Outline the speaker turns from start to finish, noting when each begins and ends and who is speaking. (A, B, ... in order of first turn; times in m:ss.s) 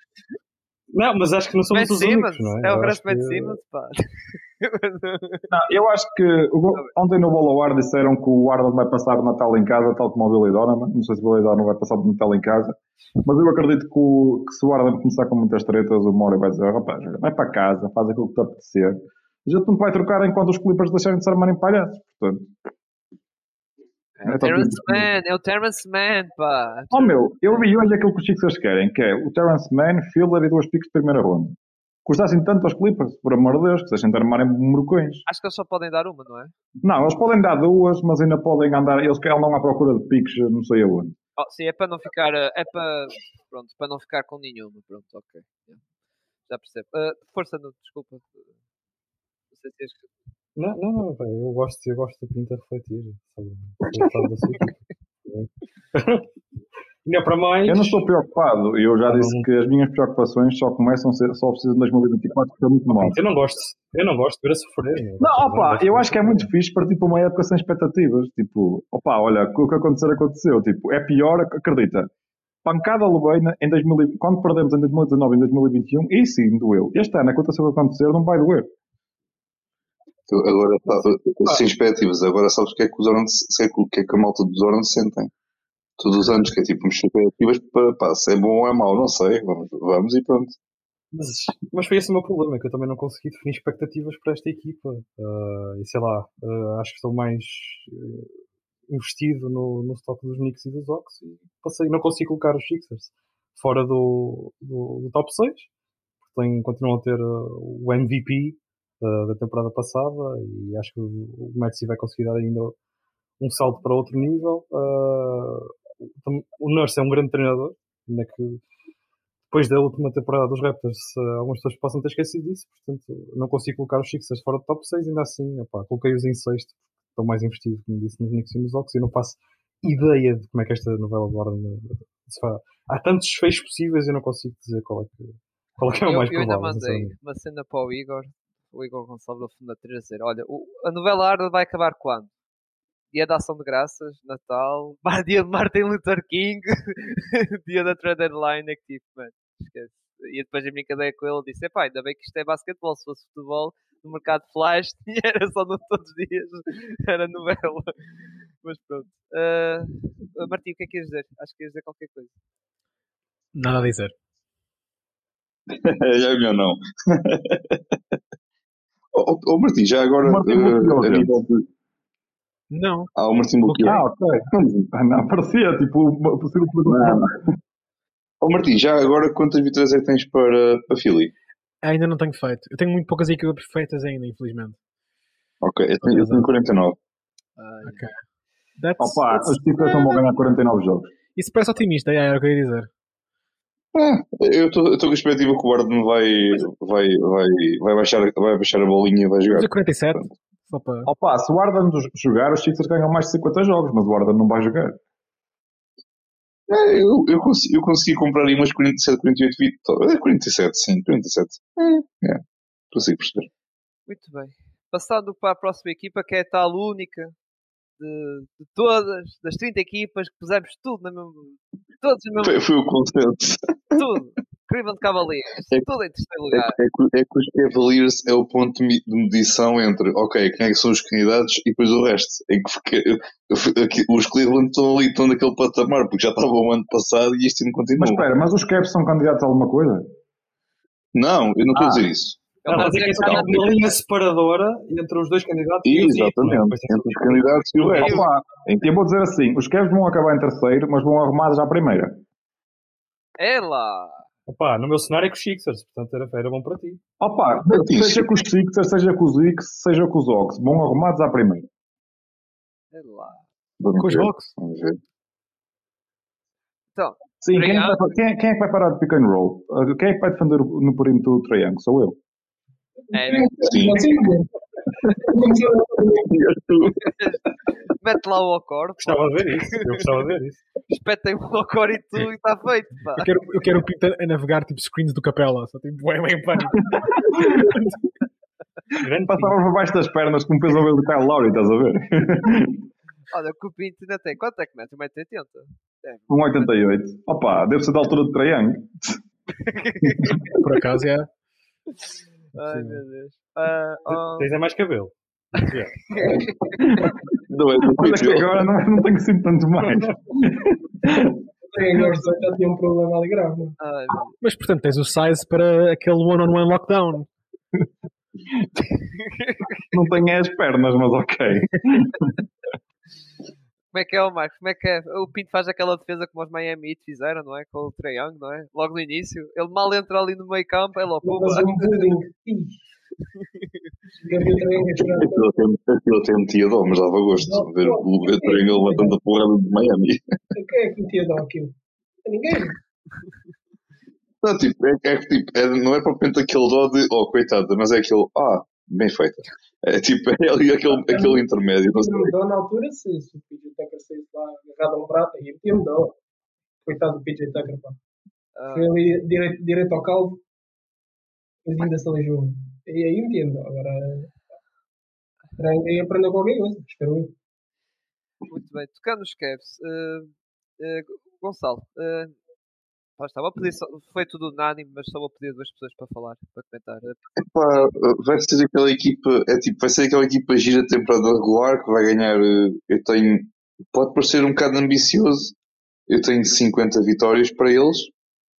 0:00.9-0:03.6 A
0:01.7-0:05.5 B
0:05.5-0:22.6 C
0:24.2-0:27.7 B
0:24.2-0:25.1 C
0:26.9-0:35.2 C
0:35.3-0:36.5 B
0:36.8-0:41.1 C
0:41.4-0:45.8 B
0:46.5-0:48.5 B
0:49.5-0:50.1 B
0:50.6-0:56.3 A
0:57.0-0:58.0 A
0:57.6-1:03.2 C
0:59.1-0:59.5 A
1:03.0-1:06.5 A
1:05.2-1:12.1 C
1:12.6-1:18.7 C
1:20.3-1:25.3 D
1:26.0-1:30.6 D
1:31.1-1:38.3 A
1:38.9-1:45.7 A
1:46.2-1:52.7 A
1:53.4-1:58.6 A
1:59.5-2:17.1 A
2:16.0-2:22.3 B
2:23.1-2:42.3 B
2:43.5-2:44.1 E
2:45.7-2:47.8 D
2:49.1-2:51.6 D
2:50.2-2:51.4 C
2:52.7-2:53.1 E
2:53.2-2:54.9 D
2:53.7-2:57.3 C
2:56.8-2:57.5 D
2:58.4-3:01.3 D
3:01.8-3:04.8 E
3:05.6-3:07.0 D
3:06.0-3:06.5 E
3:07.6-3:08.0 B
3:07.8-3:08.1 E
3:08.8-3:10.2 E
3:09.0-3:11.1 C
3:11.3-3:12.9 E
3:13.9-3:20.3 D
3:19.5-3:21.1 E
3:21.0-3:25.0 C
3:26.7-3:33.5 D
3:34.1-3:37.3 B
3:38.0-3:42.6 B
3:42.4-3:44.0 D
3:43.9-3:46.8 B
3:46.5-3:58.2 D
3:58.0-4:00.0 C
4:01.1-4:02.4 D
4:01.8-4:02.0 C
4:02.6-4:03.9 B
4:02.7-4:08.2 A
4:03.2-4:03.5 D
4:05.8-4:08.8 D
4:08.0-4:12.2 C
4:08.0-4:08.2 B
4:13.4-4:14.2 B
4:14.5-4:17.0 A
4:17.2-4:21.7 C
4:17.7-4:18.4 D
4:22.9-4:23.4 B
4:23.8-4:25.0 D
4:24.0-4:24.5 C
4:27.0-4:28.0 B
4:27.4-4:32.2 C
4:33.1-4:33.7 B
4:33.1-4:34.5 F
4:33.6-4:34.1 D
4:35.2-4:36.3 F
4:36.2-4:37.0 D
4:37.0-4:40.0 B
4:39.0-4:40.6 A
4:40.9-4:43.3 B
4:43.2-4:47.3 E
4:47.3-4:47.7 C
4:49.0-4:49.6 A
4:49.1-4:52.8 C
4:53.3-4:56.7 B
4:56.3-4:59.2 C
4:59.5-5:00.6 B
5:00.6-5:01.3 E
5:02.5-5:04.5 B
5:02.6-5:03.0 E
5:04.1-5:06.4 A
5:06.1-5:07.0 B
5:06.8-5:07.1 C
5:07.5-5:08.5 D
5:07.9-5:11.4 C
5:11.7-5:13.8 F
5:13.8-5:14.3 B
5:14.4-5:17.3 E
5:19.1-5:19.8 B
5:19.9-5:22.3 C
5:23.9-5:32.1 B
5:31.2-5:32.8 F
5:34.2-5:35.5 F
5:35.0-5:40.2 D
5:37.3-5:39.2 F
5:40.5-5:42.8 F
5:44.4-5:52.3 D
5:50.9-5:56.2 F
5:56.8-5:58.0 F
5:58.6-5:58.9 B
5:58.7-6:00.4 F
6:01.6-6:04.4 F
6:05.6-6:07.3 F
6:08.5-6:12.4 B
6:13.2-6:17.9 B
6:17.4-6:25.5 D
6:26.1-6:28.1 D